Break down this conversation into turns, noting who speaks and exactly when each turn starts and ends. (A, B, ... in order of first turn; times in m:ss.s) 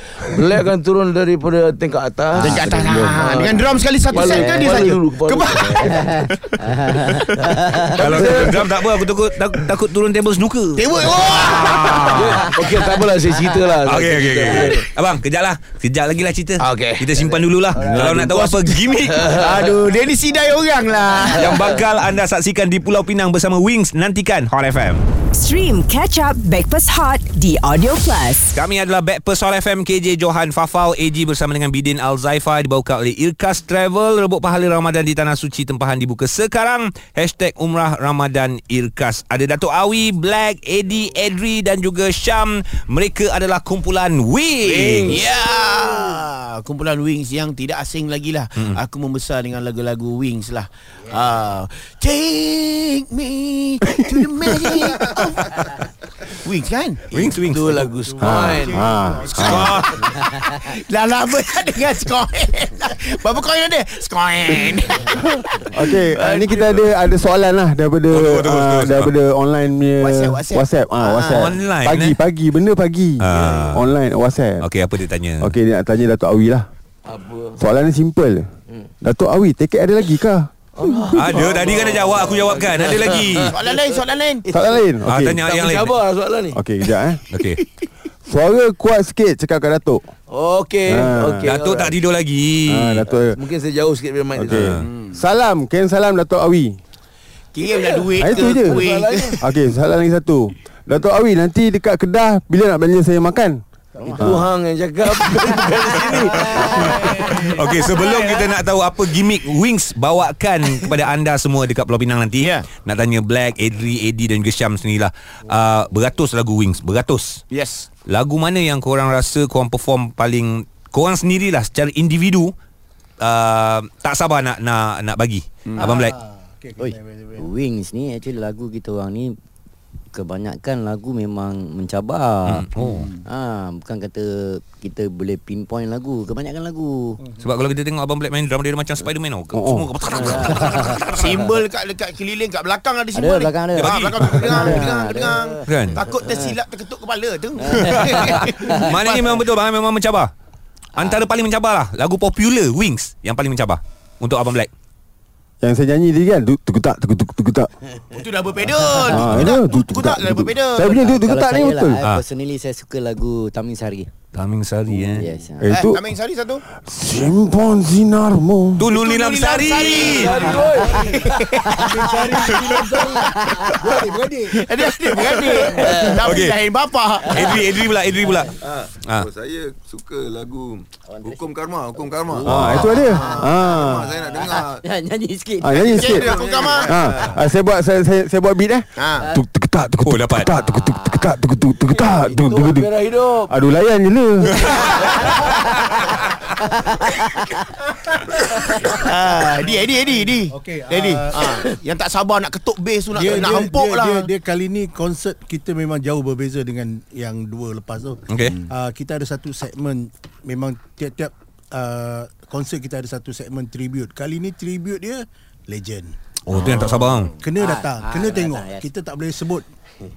0:00.2-0:06.2 A
0:02.3-0:03.4 B
0:02.4-0:07.2 C
0:05.9-0:08.0 D
0:07.4-0:08.8 A
0:07.9-0:12.5 E
0:10.8-0:12.3 C
0:12.1-0:14.9 A
0:13.8-0:19.3 E
0:16.6-0:18.4 A
0:17.8-0:21.7 C
0:19.1-0:19.8 A
0:21.3-0:25.0 E
0:21.4-0:21.8 A
0:25.3-0:28.6 F
0:28.5-0:45.2 E
0:44.6-0:45.4 A
0:45.0-0:57.2 C
0:53.9-0:54.7 B
0:57.1-0:57.9 E
0:57.2-0:58.9 A
0:57.9-0:59.7 G
0:58.2-0:59.8 B
0:59.3-1:00.0 E
0:59.4-1:05.7 C
1:05.6-1:14.6 B
1:06.2-1:06.8 A
1:08.1-1:09.1 E
1:10.0-1:11.5 C
1:11.3-1:12.2 E
1:13.2-1:13.8 E
1:14.6-1:15.5 E
1:15.4-1:16.7 B
1:17.0-1:17.6 A
1:17.6-1:18.5 B
1:19.0-1:21.5 B
1:20.8-1:24.8 A
1:21.1-1:23.6 E
1:23.4-1:24.4 C
1:24.5-1:25.4 B
1:25.0-1:25.9 E
1:25.4-1:26.6 A
1:26.5-1:27.2 B
1:27.3-1:27.6 E
1:28.3-1:30.0 B
1:30.3-1:32.0 A
1:30.9-1:31.5 B
1:31.4-1:33.0 E
1:32.7-1:33.4 B
1:33.3-1:34.7 A
1:34.4-1:36.8 B
1:34.5-1:34.8 E
1:34.8-1:35.2 C
1:37.5-1:39.4 C
1:37.6-1:39.4 A
1:38.2-1:38.8 B
1:39.4-1:43.6 B
1:44.0-1:44.3 D
1:44.1-1:47.4 A
1:44.1-1:44.5 B
1:46.3-1:46.9 D
1:46.6-1:57.4 E
1:47.0-1:47.4 G
1:52.4-1:52.7 C
1:57.5-1:57.9 C
1:58.1-2:02.5 E
2:03.2-2:06.2 E
2:05.7-2:05.9 C
2:05.8-2:07.5 G
2:06.8-2:09.4 D
2:10.1-2:12.7 D
2:12.4-2:13.1 E
2:13.2-2:17.2 D
2:17.4-2:21.3 E
2:19.5-2:19.9 B
2:20.2-2:20.9 A
2:20.4-2:21.1 D
2:21.1-2:29.4 C
2:23.1-2:25.4 D
2:23.7-2:24.2 E
2:25.6-2:26.0 E
2:27.6-2:28.8 D
2:28.8-2:30.3 E
2:31.0-2:34.7 E
2:35.6-2:37.7 B
2:38.1-2:41.0 C
2:39.0-2:42.0 B
2:40.8-2:44.1 D
2:44.3-2:45.2 E
2:45.0-2:45.7 D
2:45.6-2:46.1 B
2:45.7-2:46.6 C
2:46.8-2:48.9 B
2:48.8-2:50.4 E
2:48.9-2:52.6 C
2:49.8-2:51.4 A
2:50.6-2:51.1 D
2:51.7-2:56.0 G
2:53.2-2:54.0 D
2:54.5-2:57.5 C
2:55.9-2:56.2 D
2:56.2-2:56.6 E
2:57.2-2:58.5 D
2:57.3-2:58.5 E
2:58.6-3:04.8 H
3:01.1-3:01.4 D
3:02.4-3:04.1 B
3:02.4-3:02.8 E
3:02.8-3:03.5 C
3:02.8-3:06.4 D
3:05.6-3:06.3 B
3:05.7-3:07.0 C
3:06.0-3:07.3 H
3:06.8-3:12.9 B
3:09.0-3:09.3 C
3:10.0-3:10.5 E
3:10.5-3:11.3 D
3:11.9-3:13.6 A
3:13.5-3:14.6 B
3:14.7-3:15.4 A
3:15.4-3:15.7 D
3:16.6-3:17.4 D
3:18.8-3:24.3 C
3:20.5-3:21.6 G
3:23.1-3:36.1 G
3:28.3-3:28.6 E
3:36.4-3:37.3 E
3:36.5-3:37.3 C
3:37.4-3:39.6 G
3:37.6-3:38.9 D